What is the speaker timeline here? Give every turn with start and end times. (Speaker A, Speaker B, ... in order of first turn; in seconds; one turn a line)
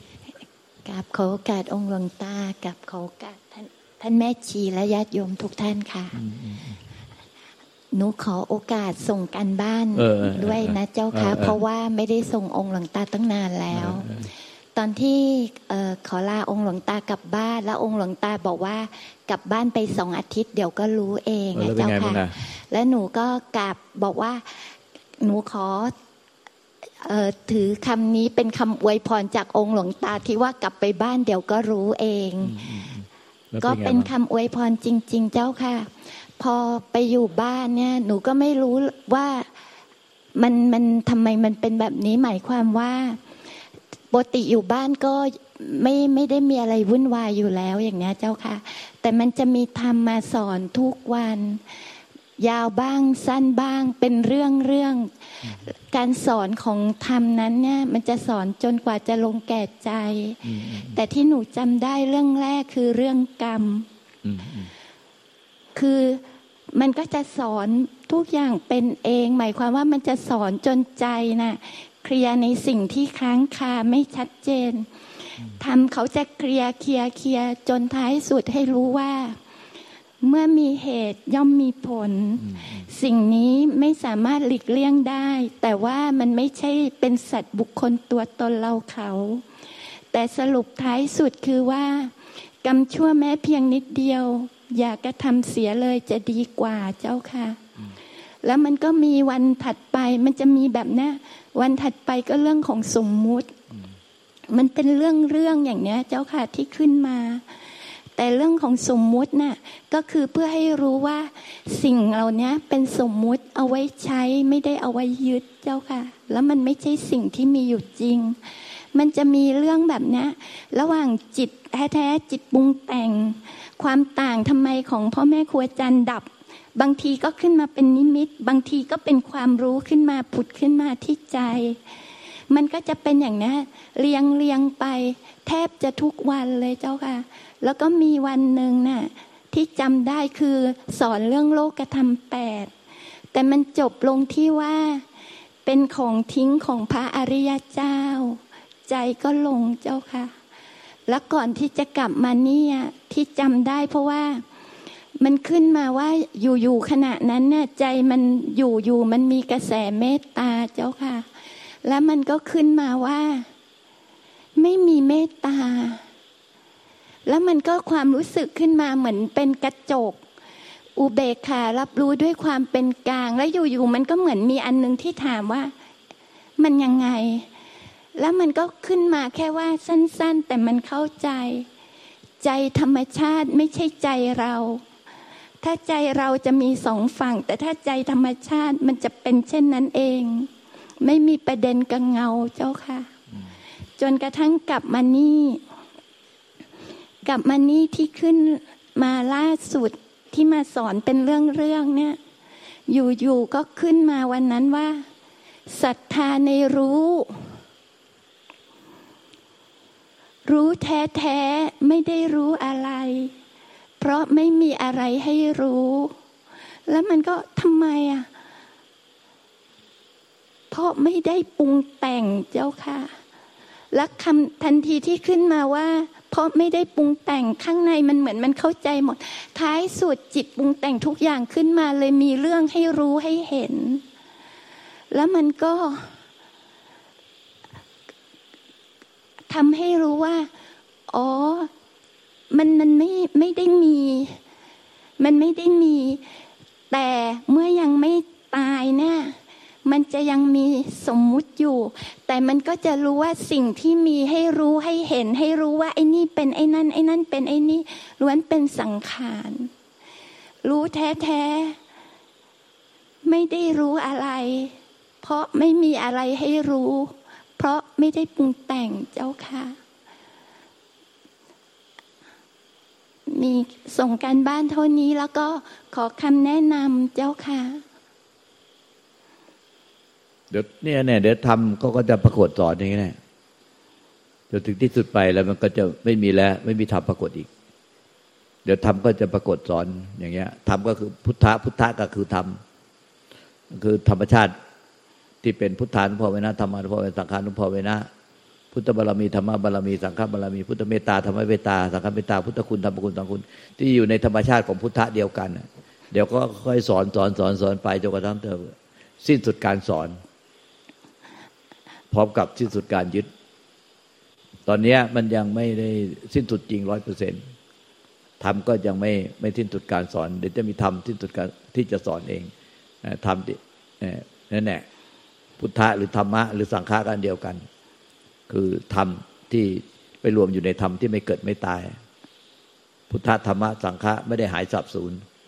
Speaker A: 0.8-6.2
Speaker B: 6.1-6.8
Speaker A: 7.9-14.1
Speaker B: 9.9-11.6
Speaker B: 13.7-14.3
Speaker A: 14.7-25.9
Speaker B: 21.5-22.4
Speaker A: 27.0-32.5
Speaker B: 32.4-34.1
Speaker A: 33.6-39.5
Speaker A: 40.4-43.2
Speaker A: 44.1-51.8
Speaker A: 52.4-63.9
Speaker B: 60.4-61.0
Speaker B: 64.2-64.7
Speaker A: 65.7-79.4
Speaker A: 80.2-97.6
Speaker B: 82.4-82.9
Speaker A: 98.4-103.5
Speaker A: 104.5-107.4
Speaker A: 108.2-118.4
Speaker A: 118.9-131.8
Speaker A: 132.5-142.7
Speaker A: 143.3-145.0
Speaker A: 145.6-150.3
Speaker A: 151.1-154.4
Speaker A: 155.2-161.2
Speaker A: 161.8-163.5
Speaker A: 164.6-166.0
Speaker A: 167.2-170.2
Speaker A: 171.0-175.7
Speaker A: 176.6-177.5
Speaker A: 178.2-181.7
Speaker A: 182.4-184.8
Speaker A: 185.6-190.5
Speaker A: 191.0-193.1
Speaker A: 194.0-195.6
Speaker A: 197.2-202.2
Speaker A: 202.9-205.1
Speaker A: 205.7-207.6
Speaker A: 210.4-213.3
Speaker A: 214.0-216.1
Speaker A: 216.9-218.3
Speaker A: 220.7-223.1
Speaker A: 223.9-234.0
Speaker A: 235.1-236.1
Speaker A: 239.5-240.5
Speaker A: 241.1-241.7
Speaker A: 242.5-244.4
Speaker A: 245.2-246.2
Speaker A: 246.9-259.7
Speaker A: 260.6-261.8
Speaker A: 263.2-269.8
Speaker A: 273.3-277.8
Speaker B: 280.5-283.2
Speaker B: 284.5-287.5
Speaker B: 288.6-292.6
Speaker B: 293.7-294.5
Speaker B: 295.4-298.1
Speaker B: 298.7-310.2
Speaker B: 312.1-313.3
Speaker B: 314.7-317.4
Speaker B: 318.4-322.5
Speaker B: 323.0-324.8
Speaker B: 325.6-327.6
Speaker B: 328.5-331.9
Speaker B: 333.1-335.2